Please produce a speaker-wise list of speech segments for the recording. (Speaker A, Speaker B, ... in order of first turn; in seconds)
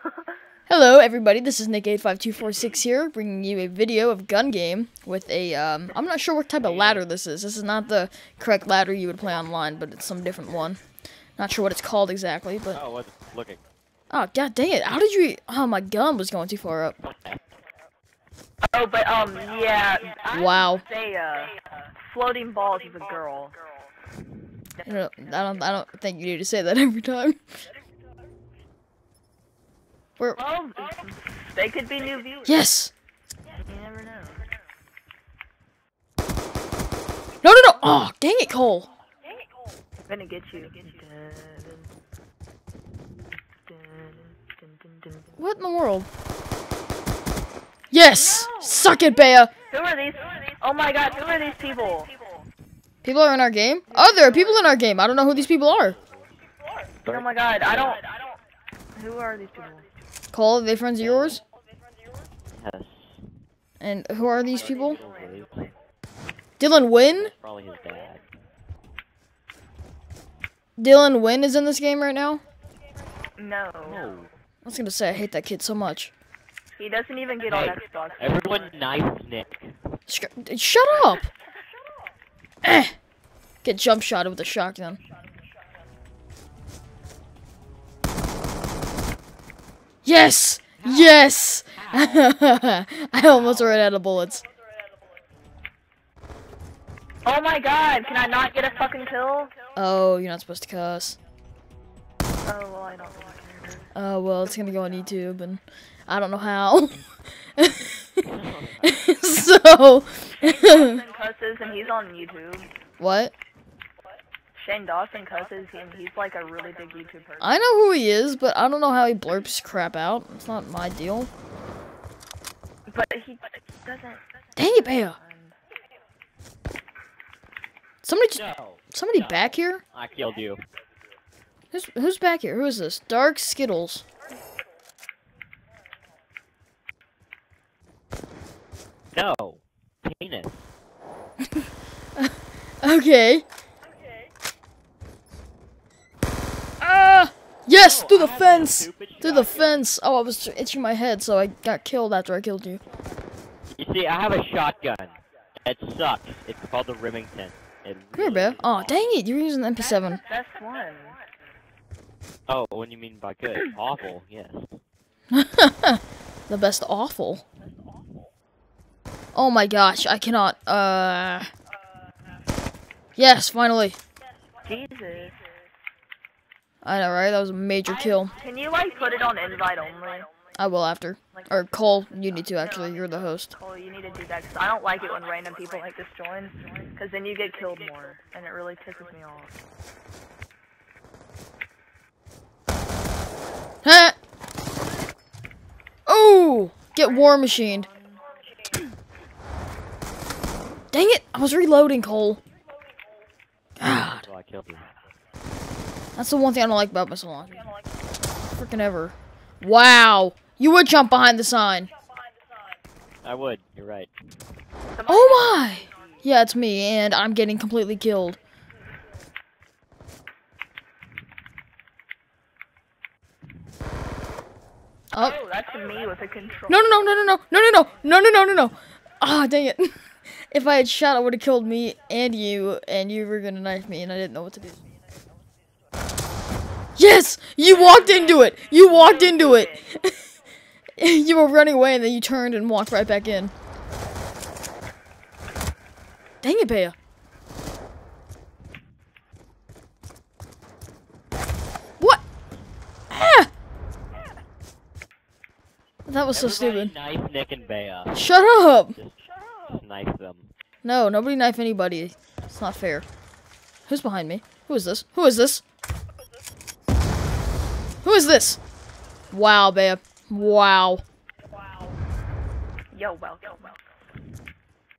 Speaker A: 0.7-10.8, 11.4-12.8, 14.1-17.0, 20.3-20.8, 24.9-27.4, 32.5-32.9, 37.4-38.9, 45.4-46.1, 47.9-49.5, 53.0-56.0, 60.3-61.4, 63.8-65.0, 66.6-67.3, 70.8-72.4, 74.7-76.1, 80.1-81.3, 82.6-83.0, 83.6-85.0, 90.0-94.5, 99.8-101.2, 104.0-108.3, 108.8-111.0, 113.0-113.3, 117.4-121.3, 124.6-125.2, 128.0-129.8, 131.7-134.1, 141.5-143.4, 146.8-152.8, 158.2-160.2, 165.3-167.4, 169.3-171.5, 173.2-174.0, 176.8-178.3, 180.6-183.5, 193.8-194.2, 196.1-197.9, 200.9-202.4, 203.8-204.2, 206.2-207.6, 208.6-211.9, 215.1-218.4, 226.7-234.8, 237.0-240.2, 241.0-243.5, 246.4-246.9, 253.1-253.5, 256.1-256.9, 258.1-259.0, 260.8-263.1, 263.9-265.6, 268.0-268.6, 269.3-271.0
Speaker B: 6.6-7.1, 12.7-13.6, 17.0-17.5, 55.0-56.4, 57.1-58.0, 61.0-61.4, 62.5-63.3, 64.5-65.7, 67.0-68.2, 73.8-74.3, 77.5-79.8, 90.8-92.3, 93.2-93.9, 108.3-108.9, 128.4-130.6, 139.1-140.7, 147.7-149.9, 153.7-159.1, 162.5-164.7, 203.9-204.9, 213.2-214.1, 256.3-258.3, 259.0-260.5
Speaker C: 18.7-23.6, 24.8-25.3, 30.4-32.6, 33.6-34.5, 40.1-41.9, 43.7-45.4, 48.1-48.9, 49.7-52.1, 53.9-54.8, 57.0-58.1, 59.0-59.9, 64.7-65.2, 73.4-74.0, 76.8-78.7, 97.2-99.5, 102.5-103.9, 110.4-112.7, 114.6-117.7, 122.9-125.5, 159.8-161.2, 174.6-175.4, 177.9-180.3, 181.3-189.5, 197.0-198.2, 215.0-216.2, 225.2-226.9, 237.6-240.1, 272.9-273.8